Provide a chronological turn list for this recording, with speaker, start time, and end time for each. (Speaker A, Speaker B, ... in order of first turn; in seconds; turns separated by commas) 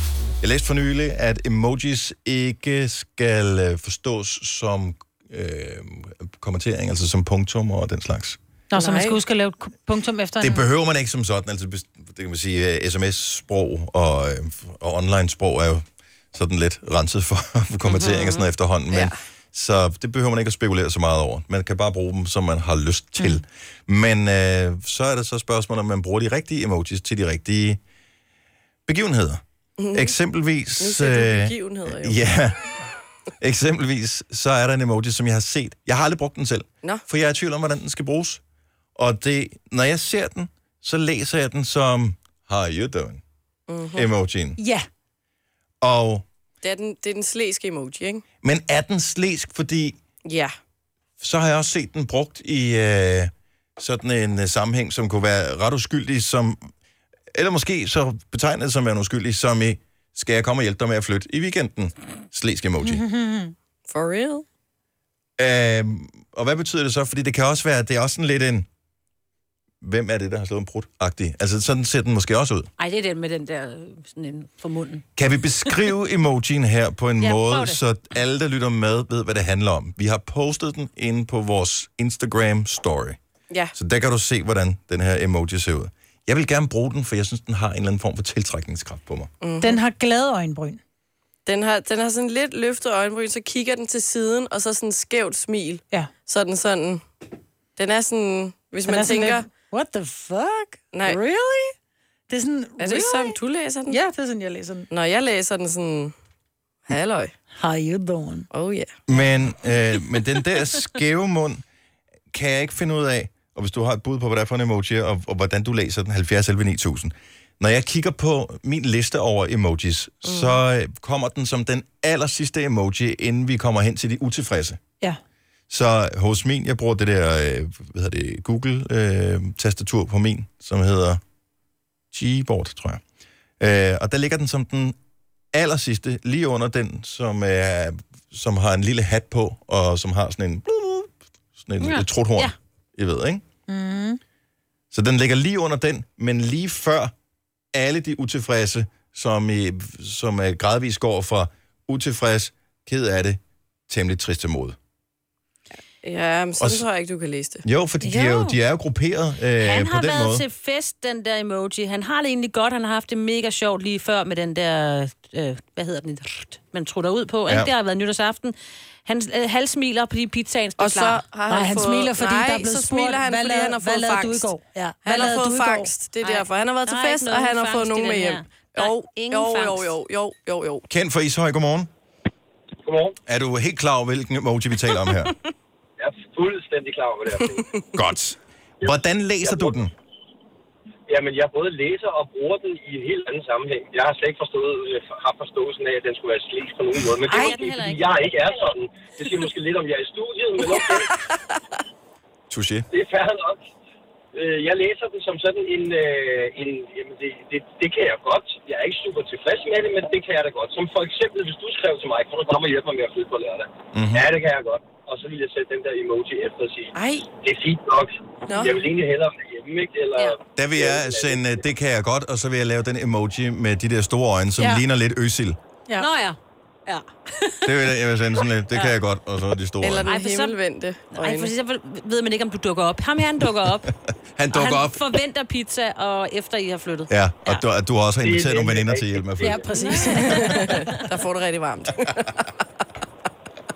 Speaker A: 0.4-8.4, Speaker B: 8.7-10.6, Speaker C: 8.7-9.2, Speaker A: 10.4-27.8, Speaker D: 17.9-18.5, Speaker C: 18.9-19.2, Speaker A: 28.9-29.4, Speaker C: 29.8-30.1, Speaker A: 29.9-32.6, Speaker C: 30.8-32.2, Speaker A: 33.4-38.4, Speaker A: 39.0-43.2, Speaker C: 43.7-44.1, Speaker A: 44.0-44.6, Speaker B: 44.6-44.9, Speaker A: 45.8-46.3, Speaker C: 46.6-48.2, Speaker A: 48.4-50.0, Speaker C: 50.2-50.5, Speaker A: 51.2-56.7, Speaker A: 57.3-63.0, Speaker B: 62.8-63.5, Speaker C: 63.9-64.5, Speaker A: 65.4-68.7, Speaker A: 69.8-72.7, Speaker D: 72.8-75.1, Speaker A: 75.2-83.2, Speaker D: 77.2-77.8, Speaker C: 83.5-83.8, Speaker A: 83.8-89.3, Speaker C: 89.4-89.8, Speaker B: 89.6-90.8, Speaker C: 91.5-97.0, Speaker C: 97.8-99.5, Speaker B: 98.8-101.7, Speaker C: 100.9-101.2, Speaker B: 102.3-104.9, Speaker C: 102.8-104.0, Speaker C: 104.9-106.2, Speaker C: 106.9-107.3, Speaker B: 107.6-108.5, Speaker C: 108.5-109.0, Speaker A: 109.1-111.6, Speaker A: 112.3-124.8, Speaker C: 120.2-120.5, Speaker A: 125.7-131.2, Speaker A: 132.1-133.0, Speaker A: 133.6-135.0, Speaker A: 135.5-143.4, Speaker D: 141.8-142.5, Speaker B: 143.7-144.2, Speaker A: 144.9-147.1, Speaker A: 147.7-154.8, Speaker C: 156.0-157.6, Speaker A: 156.6-156.9, Speaker A: 157.6-160.4, Speaker D: 158.0-158.6, Speaker D: 159.6-171.2, Speaker C: 170.8-180.9, Speaker B: 171.5-175.9, Speaker D: 173.3-174.3, Speaker D: 175.1-175.5, Speaker D: 176.2-179.9, Speaker A: 180.9-181.9, Speaker E: 182.8-183.2, Speaker A: 183.3-185.4, Speaker E: 186.0-187.8, Speaker A: 188.8-189.9, Speaker E: 188.8-189.8, Speaker E: 191.1-201.2, Speaker D: 197.3-198.1, Speaker A: 202.5-202.9, Speaker E: 202.9-203.6, Speaker E: 204.3-221.6, Speaker A: 213.9-214.3, Speaker C: 216.9-217.3, Speaker C: 218.5-218.8, Speaker A: 220.6-225.6, Speaker D: 226.0-227.8, Speaker A: 227.7-230.1, Speaker C: 229.8-231.5, Speaker D: 230.0-230.6, Speaker D: 231.1-233.9, Speaker A: 234.4-235.0, Speaker D: 234.5-237.6, Speaker A: 237.1-239.8, Speaker E: 238.2-240.0, Speaker B: 239.4-240.7, Speaker D: 239.8-240.9, Speaker C: 240.2-242.3